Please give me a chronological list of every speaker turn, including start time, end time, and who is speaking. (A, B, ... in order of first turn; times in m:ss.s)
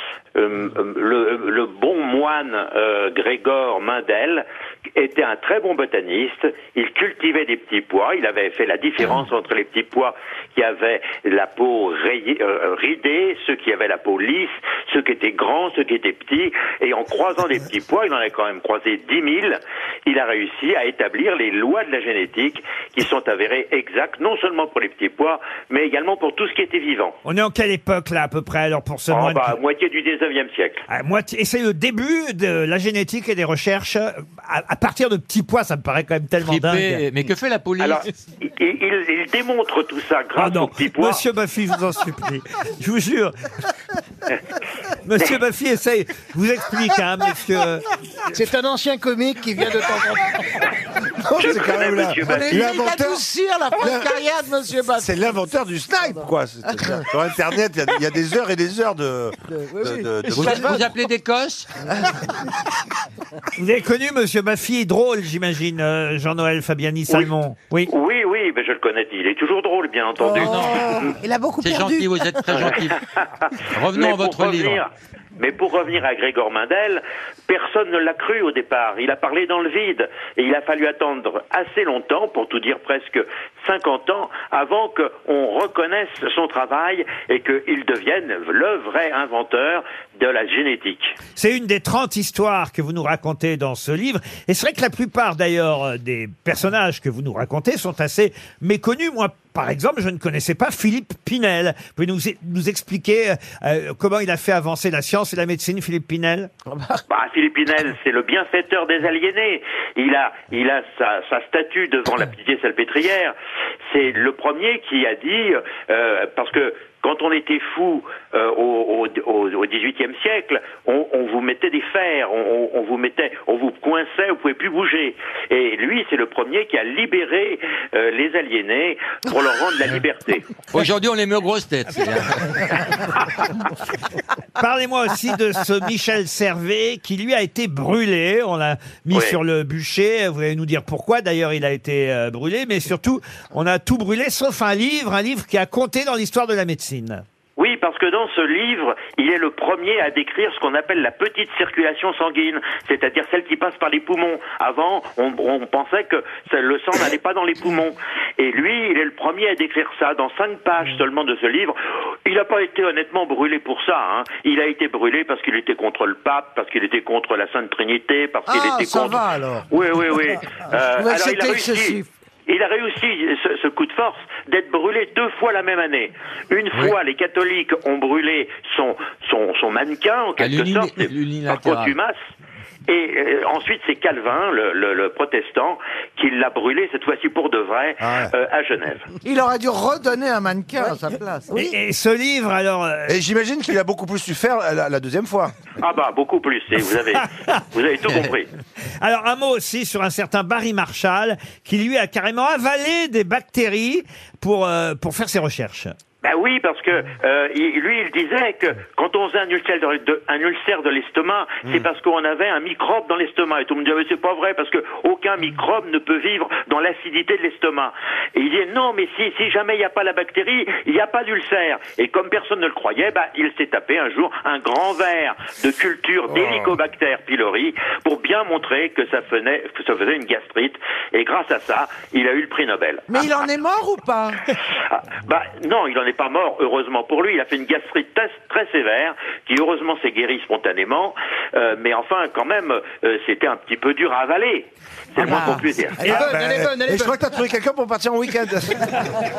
0:00.3-0:27.2 A
0:27.2-0:29.6 B
0:29.1-0:30.8 A
0:30.9-0:37.0 B
0:36.4-0:38.0 C
0:37.8-0:41.2 A
0:40.4-0:43.3 B
0:45.0-0:47.8 B
0:48.3-0:50.6 D
0:51.2-0:53.2 E
0:51.3-0:52.7 A
0:52.2-0:55.1 F
0:53.8-0:54.1 E
0:55.0-1:00.9 E
0:59.5-1:00.8 F
1:00.3-1:01.7 C
1:03.6-1:07.9 B
1:07.8-1:11.0 A
1:10.2-1:12.7 G
1:10.3-1:11.0 C
1:11.6-1:13.0 C
1:12.5-1:13.3 A
1:13.7-1:14.8 C
1:13.9-1:31.2 A
1:31.3-1:46.5 B
1:47.1-1:53.3 A
1:53.9-2:10.5 A
2:10.7-2:12.8 C
2:14.6-2:27.2 B
2:19.1-2:19.4 A
2:27.6-3:02.2 A
2:48.5-2:49.7 F
2:51.0-2:52.1 F
3:00.4-3:02.0 C
3:02.9-3:09.1 A
3:08.0-3:08.3 E
3:09.2-3:11.5 F
3:11.5-3:11.8 G
3:11.5-3:13.2 B
3:13.1-3:15.5 E
3:15.8-3:18.5 A
3:17.1-3:17.6 B
3:19.0-3:25.9 B
3:26.2-3:53.1 A
3:53.1-3:54.4 F
3:54.9-4:06.1 A
4:05.2-4:05.6 F
4:06.0-4:07.2 D
4:06.0-4:09.0 E